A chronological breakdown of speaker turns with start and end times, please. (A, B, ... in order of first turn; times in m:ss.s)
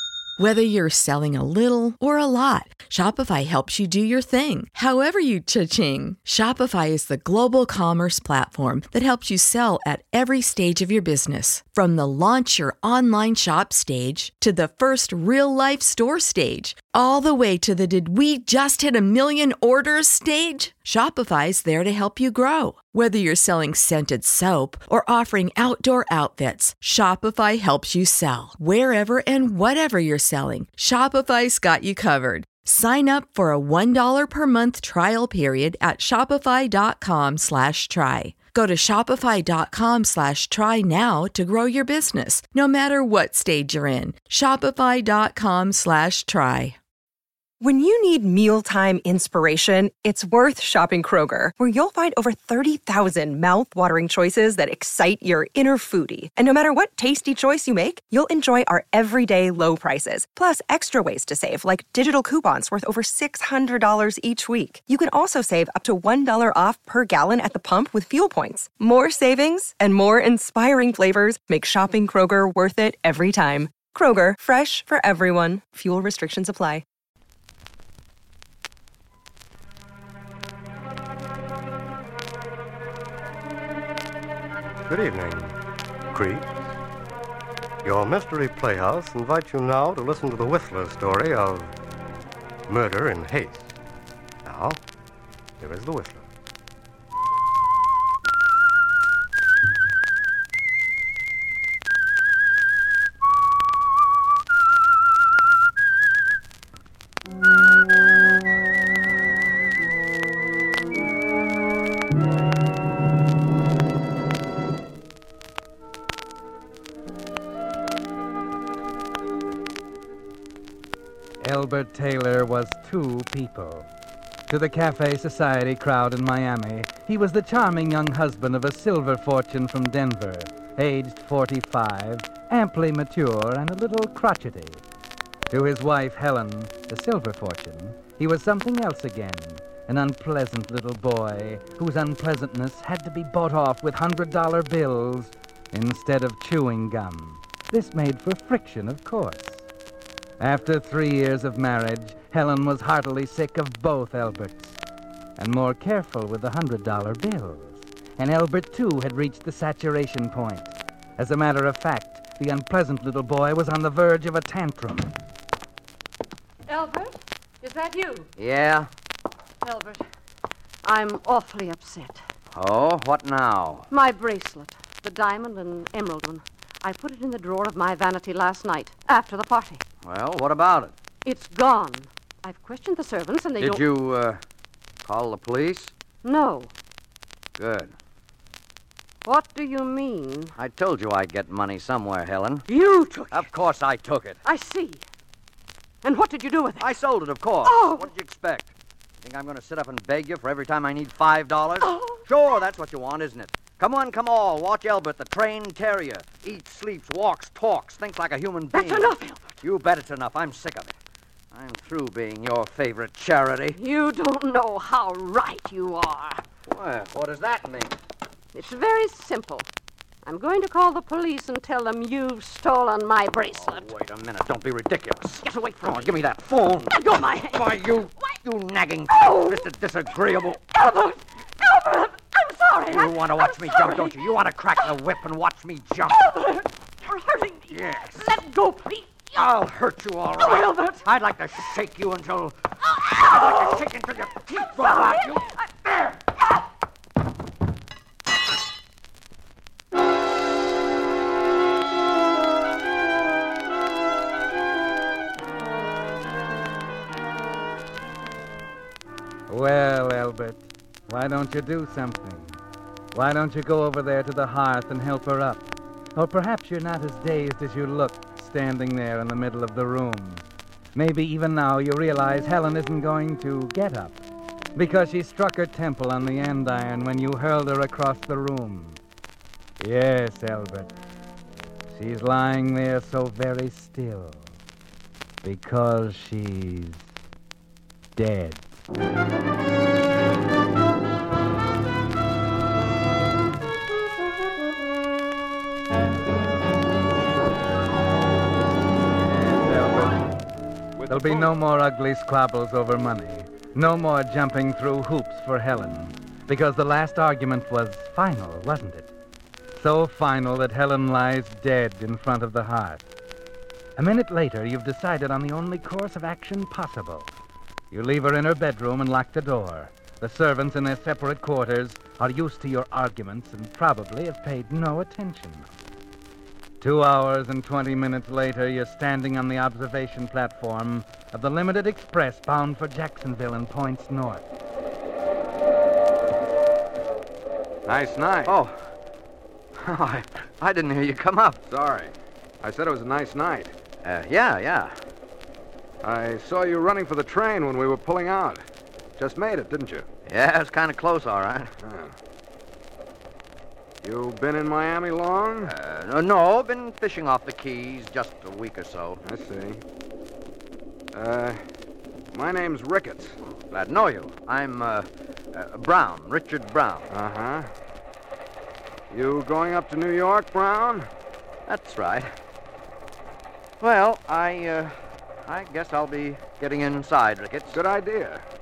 0:00.4-0:46.8 A
0:47.6-1:16.8 B
1:24.9-1:25.6 C
1:26.1-1:26.7 C
1:27.8-1:31.7 C
1:32.7-1:33.8 C
1:34.4-1:34.8 C
1:35.6-1:36.3 C
2:01.4-2:03.9 D
2:04.5-2:14.8 D
2:15.5-2:29.7 D
2:30.4-2:34.8 D
2:35.4-2:45.1 D
2:46.7-2:48.3 E
2:48.4-2:48.9 F
2:49.6-2:50.0 E
2:50.8-2:52.2 E
2:52.5-2:53.9 F
2:53.9-2:59.8 E
3:00.0-3:00.9 F
3:01.2-3:03.8 E
3:03.6-3:04.4 F
3:05.0-3:05.9 F
3:06.2-3:06.7 E
3:07.6-3:07.9 F
3:09.2-3:10.5 E
3:10.6-3:12.7 F
3:12.7-3:13.5 E
3:13.3-3:14.4 F
3:14.4-3:15.0 E
3:16.0-3:16.9 E
3:16.8-3:30.9 F
3:17.6-3:18.1 E
3:21.8-3:22.3 E
3:28.7-3:29.6 E
3:31.5-3:33.8 F
3:33.7-3:36.4 E
3:36.7-3:38.0 F
3:38.5-3:39.7 E
3:40.2-3:43.9 E
3:43.5-3:47.0 F
3:45.4-3:46.2 E
3:46.9-3:47.8 E
3:47.5-3:50.6 F
3:49.1-3:49.7 E
3:50.7-3:54.2 E
3:52.9-3:56.2 F
3:56.2-3:59.4 E
3:57.7-3:58.3 F
3:59.3-4:05.4 F
4:00.4-4:01.1 E
4:03.2-4:03.8 E
4:04.6-4:05.6 E
4:19.5-4:22.6 D
4:23.1-4:34.2 D
4:34.8-4:39.0 D
4:39.8-4:40.9 D
4:41.9-4:44.5 D
4:45.4-4:47.1 D
4:48.2-4:48.6 D
4:59.2-5:00.2 D
5:01.0-5:01.5 G
5:01.1-5:09.1 D
5:09.8-5:13.0 D
5:14.0-5:17.3 D
5:17.9-5:25.7 D
5:26.8-5:34.4 D
5:37.9-5:38.6 G
5:38.4-5:38.8 F
5:39.8-5:41.6 F
5:41.6-5:43.7 G
5:44.0-5:45.0 F
5:46.0-5:48.6 G
5:49.2-5:50.0 G
5:50.2-5:51.7 F
5:51.8-5:52.1 G
5:54.0-5:55.7 G
5:55.6-5:59.2 F
5:59.2-5:59.8 G
6:01.1-6:01.6 G
6:02.3-6:03.4 G
6:03.7-6:07.1 F
6:07.1-6:07.7 G
6:09.1-6:11.1 G
6:11.6-6:12.3 F
6:13.8-6:14.9 F
6:15.4-6:17.8 F
6:17.7-6:18.4 G